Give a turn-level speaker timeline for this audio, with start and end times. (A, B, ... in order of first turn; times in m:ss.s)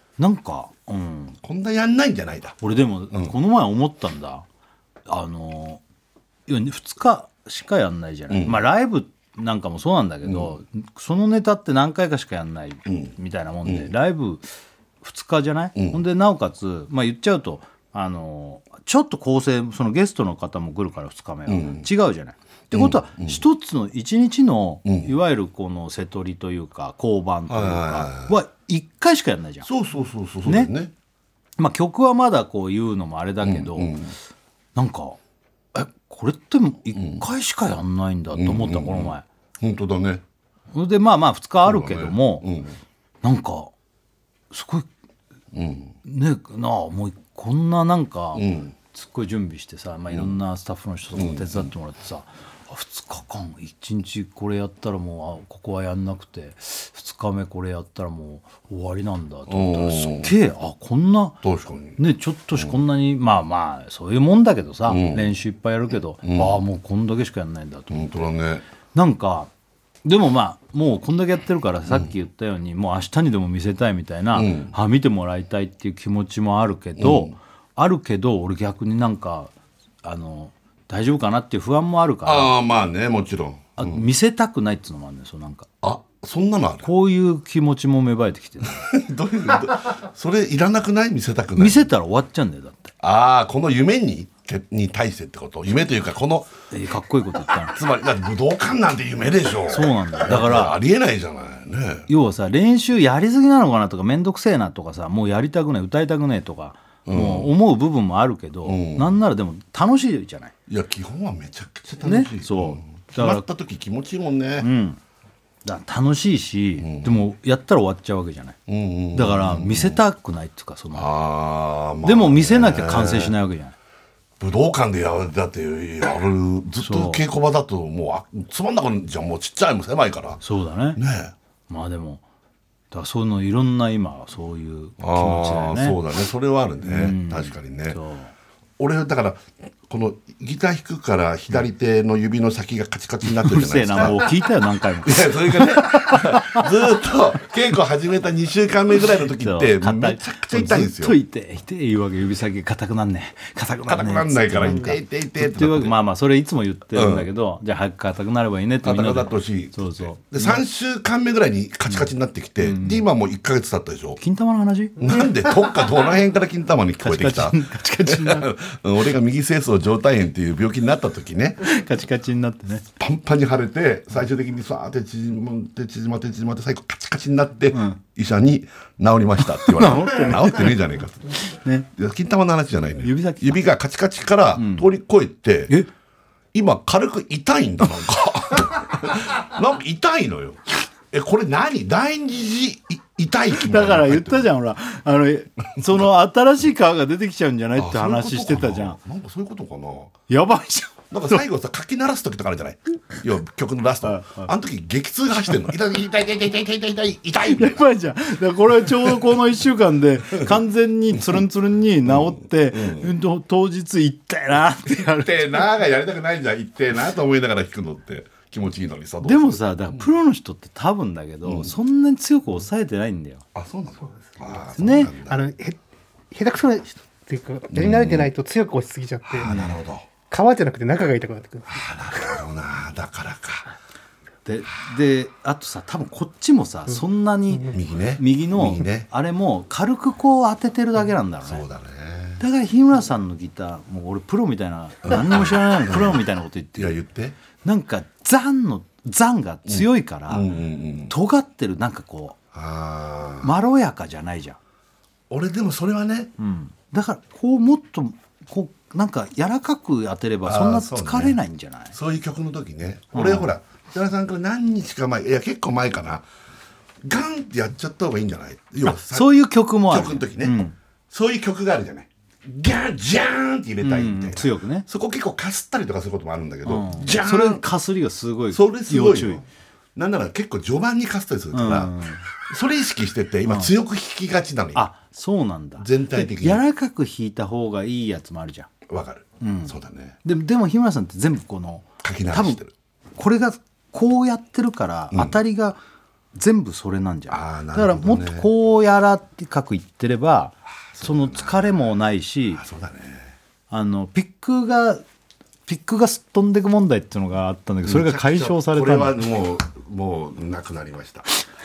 0:00.2-0:01.4 A
0:01.4-0:02.6 B
0:02.6-0:04.4 A
0:05.1-0:05.8 A
0:06.5-0:14.4 A
0:08.3-0:08.6 B
0:10.2-0:10.5 B
0:12.8-0:13.1 B
0:13.6-0:13.9 B
0:15.0-0:29.7 A
0:15.8-0:16.0 B
0:21.5-0:21.9 B
0:22.7-0:23.4 B
0:24.8-0:25.1 B
0:27.5-0:28.3 B
0:29.6-0:30.9 B
0:30.4-0:30.7 A
0:31.6-0:34.0 A
0:33.4-0:34.2 B
0:34.7-0:35.2 A
0:35.7-0:39.2 A
0:36.9-0:37.2 B
0:38.3-0:40.2 B
0:40.7-0:42.5 A
0:41.6-0:42.8 B
0:43.2-0:43.7 A
0:44.5-0:44.9 A
0:45.5-0:45.9 B
0:46.0-1:01.4 A
0:48.3-0:48.7 B
0:51.1-0:51.7 B
0:59.5-1:00.3 B
1:01.4-1:02.0 B
1:02.0-1:08.3 A
1:04.9-1:05.3 B
1:06.2-1:06.6 B
1:07.9-1:08.6 B
1:08.9-1:09.5 A
1:10.0-1:22.5 A
1:14.3-1:14.7 B
1:17.0-1:17.3 B
1:22.2-1:24.0 B
1:23.8-1:25.7 A
1:25.8-1:26.9 B
1:26.8-1:28.9 A
1:28.6-1:31.9 B
1:31.6-1:32.9 A
1:33.0-1:36.5 B
1:36.7-1:37.8 A
1:37.6-1:42.1 B
1:39.7-1:40.8 A
1:42.1-1:50.5 A
1:47.0-1:47.5 B
1:48.6-1:49.2 B
1:50.7-1:54.7 B
1:52.0-1:53.4 A
1:54.6-1:55.0 A
1:55.6-1:58.6 A
1:56.8-1:57.2 B
1:58.7-2:00.0 B
1:59.1-2:01.1 A
2:00.9-2:03.4 B
2:02.0-2:03.7 A
2:04.4-2:10.4 B
2:06.8-2:07.2 A
2:10.4-2:11.0 A
2:11.0-2:11.3 B
2:11.7-2:12.2 A
2:12.9-2:16.0 A
2:15.0-2:18.0 B
2:16.8-2:18.3 A
2:18.8-2:24.4 B
2:23.2-2:26.7 A
2:25.0-2:31.2 B
2:29.3-2:40.6 A
2:33.8-2:36.0 B
2:36.9-2:37.3 B
2:38.8-2:44.2 B
2:42.6-2:43.0 A
2:44.2-2:45.0 A
2:45.0-2:51.6 B
2:47.0-2:48.5 A
2:51.6-2:52.8 A
2:53.0-3:05.7 B
2:57.7-2:58.0 A
2:59.4-3:00.8 A
3:01.5-3:01.8 A
3:03.0-3:03.6 A
3:04.6-3:04.9 A
3:06.5-3:14.5 B
3:13.5-3:19.0 A
3:15.8-3:16.1 B
3:17.8-3:20.1 B
3:20.3-3:21.4 A
3:21.1-3:27.8 B
3:24.0-3:24.5 A
3:27.5-3:35.7 A
3:31.1-3:31.4 B
3:32.0-3:33.1 B
3:34.9-3:40.1 B
3:39.2-3:43.4 A
3:41.4-3:41.7 B
3:43.5-3:45.4 B
3:44.8-3:45.1 A
3:45.2-3:49.5 C
3:47.7-3:48.3 B
3:49.3-3:50.0 B
3:49.4-3:49.8 A
3:50.3-3:52.4 C
3:51.7-3:53.7 B
3:54.4-4:01.6 A
3:57.7-3:59.1 B
4:01.4-4:02.4 B
4:02.4-4:07.0 A
4:05.0-4:06.2 B
4:06.8-4:07.4 B
4:07.6-4:10.5 A
4:09.7-4:11.1 B
4:11.1-4:12.4 A
4:12.5-4:13.5 B
4:13.4-4:14.6 A
4:15.3-4:16.3 B
4:16.4-4:21.9 A
4:20.4-4:21.4 B
4:21.9-4:26.2 B
4:23.1-4:23.5 A
4:27.0-4:29.3 B
4:28.8-4:30.7 A
4:29.8-4:37.6 B
4:33.8-4:34.8 A
4:36.6-4:39.4 A
4:38.5-4:39.4 B
4:39.9-4:44.8 B
4:41.5-4:42.2 A
4:44.7-4:48.7 A
4:45.8-4:46.6 B
4:48.9-4:50.2 B
4:49.4-4:52.6 A
4:52.0-4:52.7 B
4:53.2-4:55.8 A
4:55.1-4:55.4 B
4:56.3-5:02.6 A
4:57.3-4:58.5 B
5:00.9-5:01.8 B
5:02.5-5:03.3 B
5:03.7-5:05.0 A
5:05.7-5:09.2 A
5:07.8-5:11.2 B